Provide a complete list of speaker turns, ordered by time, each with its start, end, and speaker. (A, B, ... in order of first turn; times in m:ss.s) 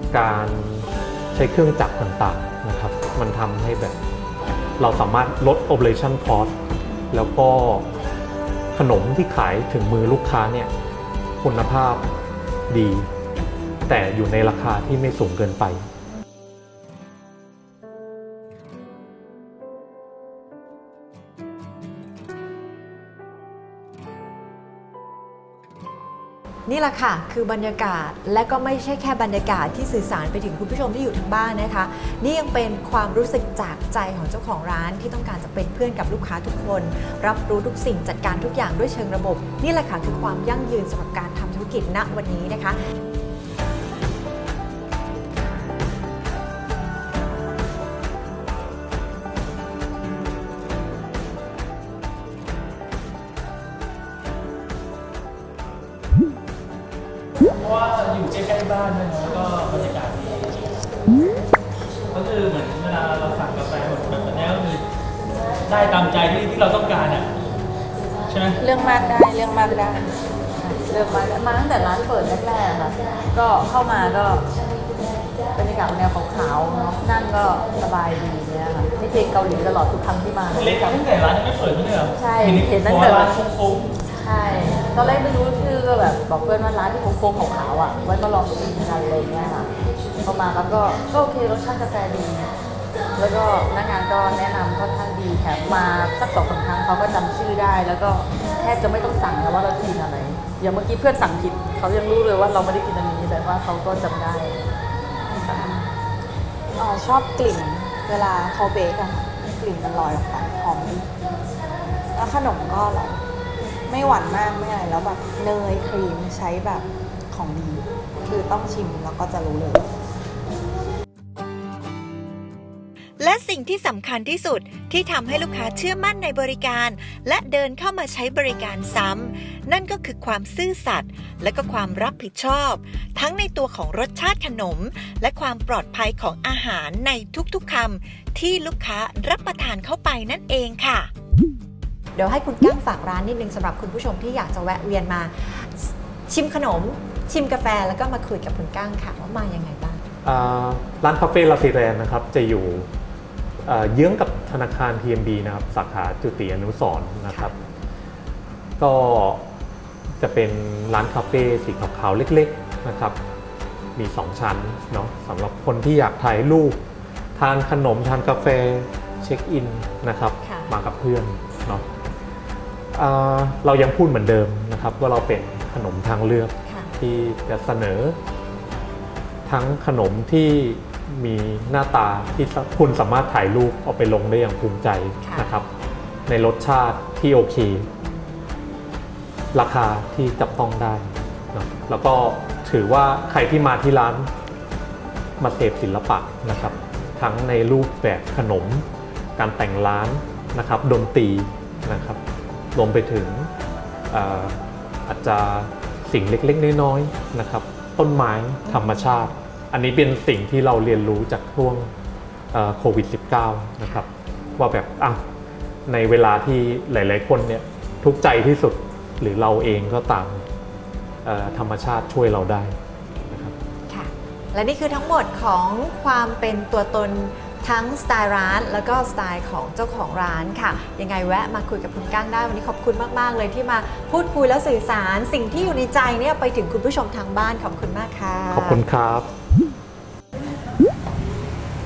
0:00.1-0:04.0 A
0:04.8-0:06.6 A
0:07.1-0:07.9 A
0:08.7-0:10.7 A
0:11.4-0:12.1 A
0:12.7-0:13.1 A
0:13.8-0:15.8 A
0:26.7-0:42.8 B
0:57.5-1:00.7 C
1:02.1-1:04.8 C
1:05.6-1:07.4 C
1:08.2-1:08.6 C
1:08.6-1:10.2 D
1:10.6-1:14.5 E
1:15.6-1:21.0 E
1:20.5-1:24.0 C
1:22.1-1:23.3 E
1:24.2-1:29.7 E
1:30.2-1:32.5 E
1:33.2-1:44.7 E
1:45.3-1:45.8 D
1:45.4-1:45.8 E
1:46.8-1:51.1 D
1:52.1-1:53.2 D
1:53.9-1:59.9 D
2:03.2-2:21.1 F
2:22.1-2:30.0 B
2:30.2-2:32.9 A
2:33.6-2:37.5 A
2:38.8-2:39.4 A
2:40.2-2:43.2 A
2:43.9-2:46.8 A
2:47.4-2:51.8 A
2:50.4-2:50.7 B
2:52.9-2:58.2 A
2:56.6-2:57.0 B
2:59.4-3:05.7 A
3:05.2-3:05.5 B
3:06.3-3:07.9 A
3:09.5-3:14.3 A
3:15.4-3:22.2 A
3:16.5-3:16.8 B
3:22.7-3:23.5 A
3:24.1-3:31.9 A
3:28.6-3:29.3 B
3:32.5-3:35.2 A
3:35.9-3:40.4 A
3:41.2-3:42.8 A
3:43.3-3:43.5 A
3:43.9-3:58.8 B
3:58.5-3:59.3 A